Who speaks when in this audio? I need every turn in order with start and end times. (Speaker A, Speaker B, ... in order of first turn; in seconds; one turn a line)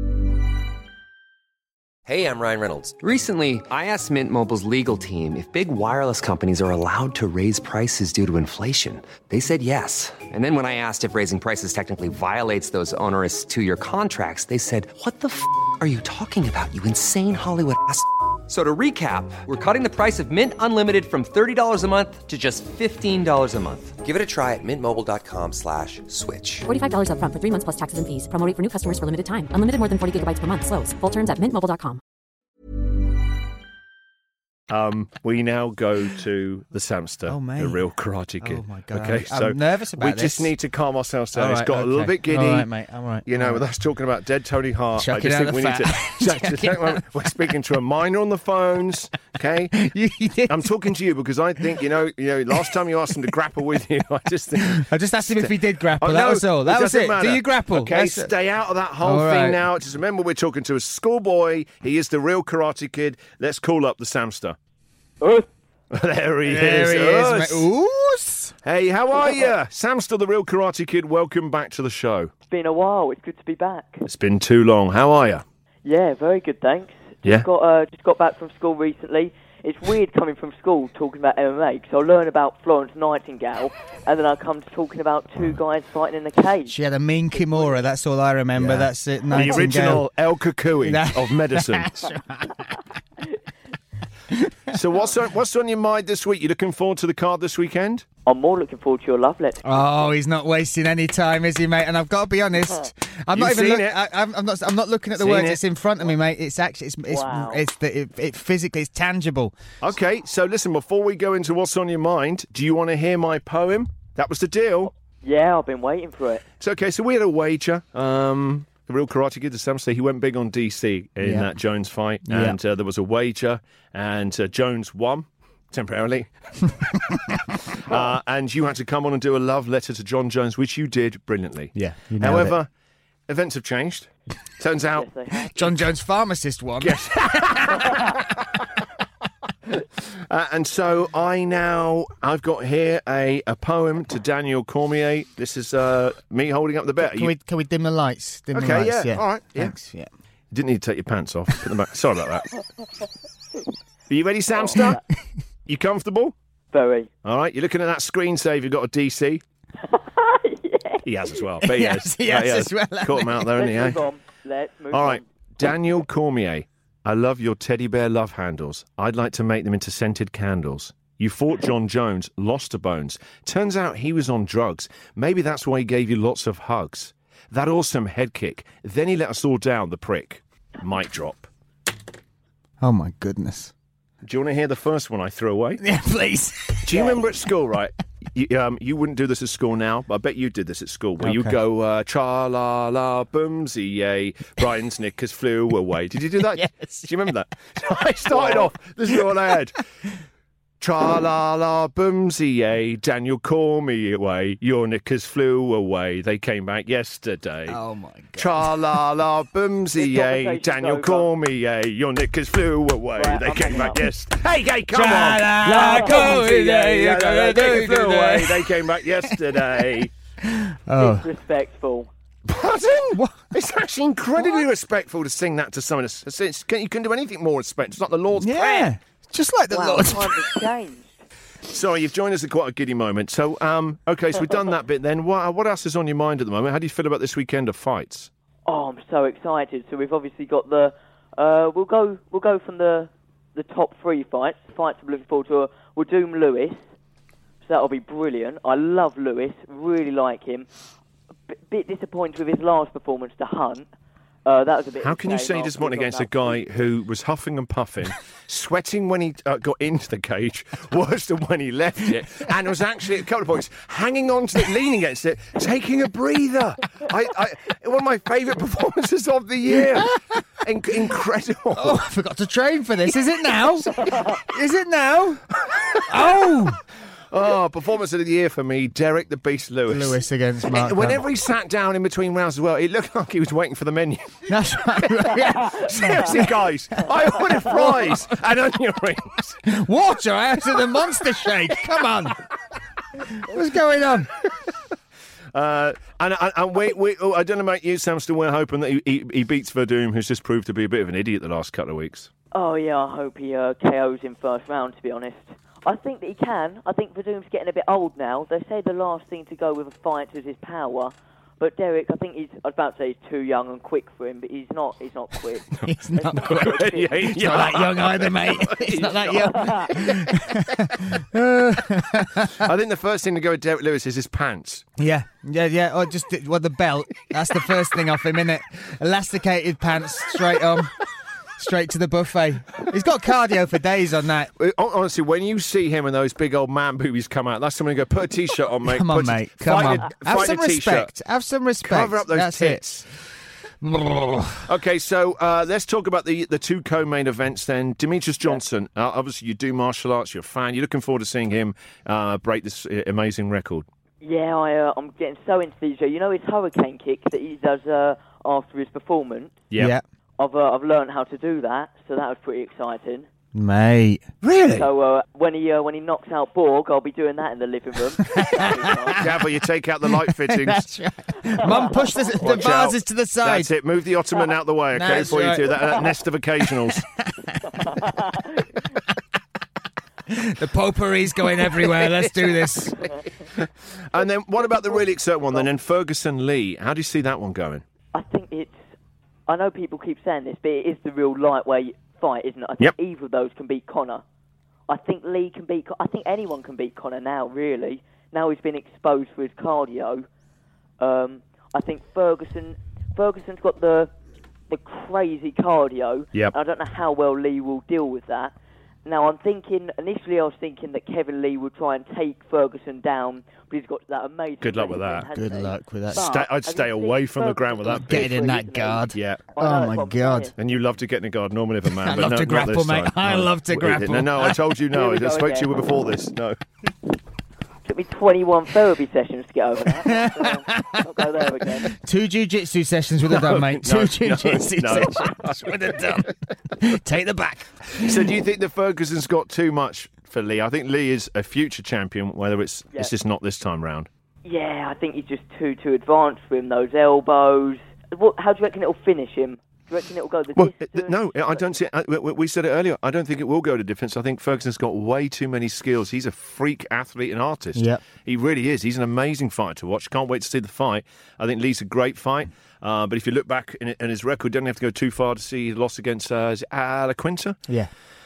Speaker A: 2.1-26.7
Speaker B: 26.7-32.0
Speaker C: 34.7-42.7
Speaker D: 37.3-37.8
Speaker D: 38.4-40.5
Speaker D: 41.3-43.6
Speaker C: 43.3-49.8
Speaker D: 45.0-47.3
Speaker D: 49.7-50.7
Speaker C: 50.5-64.6
Speaker D: 54.6-58.3
Speaker D: 59.0-59.6
Speaker E: 65.2-65.5
Speaker C: 65.9-67.7
Speaker D: 66.5-68.5
Speaker C: 68.6-72.3
Speaker E: 72.5-74.0
Speaker C: 74.0-75.4
Speaker E: 75.8-86.8
Speaker D: 86.7-90.1
Speaker E: 87.4-87.7
Speaker C: 88.6-92.1
Speaker D: 90.8-92.8
Speaker D: 94.3-94.8
Speaker C: 94.7-98.0
Speaker E: 98.3-99.8
Speaker D: 99.6-109.6
Speaker C: 103.3-104.0
Speaker C: 105.2-105.6
Speaker E: 107.1-107.6
Speaker C: 109.8-114.9
Speaker E: 115.2-116.5
Speaker C: 116.6-126.8
Speaker D: 121.2-121.5
Speaker D: 122.2-122.6
Speaker C: 127.7-132.7
Speaker D: 131.8-132.6
Speaker C: 133.3-135.1
Speaker E: 134.9-135.8
Speaker D: 135.4-138.0
Speaker C: 136.8-138.6
Speaker C: 140.0-147.3
Speaker D: 147.0-150.1
Speaker C: 148.5-149.7
Speaker C: 150.5-152.5
Speaker C: 154.1-155.0
Speaker E: 154.5-155.0
Speaker C: 155.7-156.3
Speaker E: 156.7-157.1
Speaker C: 157.2-159.4
Speaker E: 159.8-161.4
Speaker C: 161.0-164.0
Speaker D: 161.6-163.6
Speaker E: 163.5-165.2
Speaker C: 164.9-181.5
Speaker D: 182.8-183.7
Speaker C: 184.2-185.8
Speaker D: 185.8-187.2
Speaker C: 186.8-199.8
Speaker D: 191.2-191.6
Speaker D: 196.5-197.3
Speaker E: 198.3-198.7
Speaker C: 200.8-207.8
Speaker D: 207.7-208.8
Speaker C: 208.4-220.1
Speaker E: 210.0-211.3
Speaker E: 213.2-214.0
Speaker D: 214.9-219.8
Speaker E: 215.5-217.1
Speaker D: 220.4-221.3
Speaker E: 221.0-222.1
Speaker C: 222.5-228.9
Speaker D: 223.2-223.4
Speaker D: 228.4-230.6
Speaker E: 229.7-231.2
Speaker C: 231.7-238.3
Speaker E: 238.7-246.8
Speaker E: 247.6-250.7
Speaker E: 251.5-253.9
Speaker E: 254.4-256.6
Speaker C: 255.0-272.0
Speaker D: 270.0-270.4
Speaker D: 271.7-275.4
Speaker E: 274.0-274.3
Speaker C: 275.6-276.3
Speaker D: 276.1-276.8
Speaker C: 277.3-284.4
Speaker D: 279.9-281.2
Speaker D: 284.5-288.4
Speaker C: 285.0-289.6
Speaker D: 289.6-292.4
Speaker D: 293.3-294.3
Speaker C: 295.5-302.3
Speaker E: 302.5-317.3
Speaker C: 315.8-320.9
Speaker D: 315.8-322.7
Speaker E: 319.3-320.1
Speaker C: 322.4-324.9
Speaker D: 325.0-330.9
Speaker D: 331.6-334.5
Speaker C: 334.6-341.1
Speaker D: 338.9-342.8
Speaker C: 341.8-343.1
Speaker D: 343.8-344.7
Speaker C: 344.6-353.9
Speaker E: 354.2-359.7
Speaker D: 359.8-360.0
Speaker E: 360.4-363.3
Speaker D: 363.6-364.2
Speaker C: 364.4-364.9
Speaker E: 364.8-369.3
Speaker D: 368.2-369.3
Speaker C: 369.1-370.9
Speaker D: 370.2-373.7
Speaker E: 371.5-372.4
Speaker C: 372.4-377.1
Speaker D: 374.9-376.0
Speaker D: 377.3-378.2
Speaker E: 377.8-378.6
Speaker D: 380.3-383.0
Speaker E: 382.9-383.2
Speaker C: 383.6-387.8
Speaker E: 384.7-385.0
Speaker E: 388.1-388.8
Speaker E: 389.5-394.2
Speaker E: 394.9-400.3
Speaker E: 401.0-404.1
Speaker E: 404.7-408.5
Speaker E: 409.1-420.5
Speaker C: 414.6-415.3
Speaker D: 415.3-416.2
Speaker C: 416.1-418.5
Speaker D: 417.9-420.5
Speaker C: 419.1-419.4
Speaker C: 420.6-426.6
Speaker D: 422.0-424.8
Speaker E: 424.9-425.7
Speaker E: 427.9-431.9
Speaker D: 430.0-438.2
Speaker C: 433.2-436.3
Speaker C: 438.0-444.1
Speaker E: 444.4-451.6
Speaker C: 450.6-467.6
Speaker D: 457.8-458.0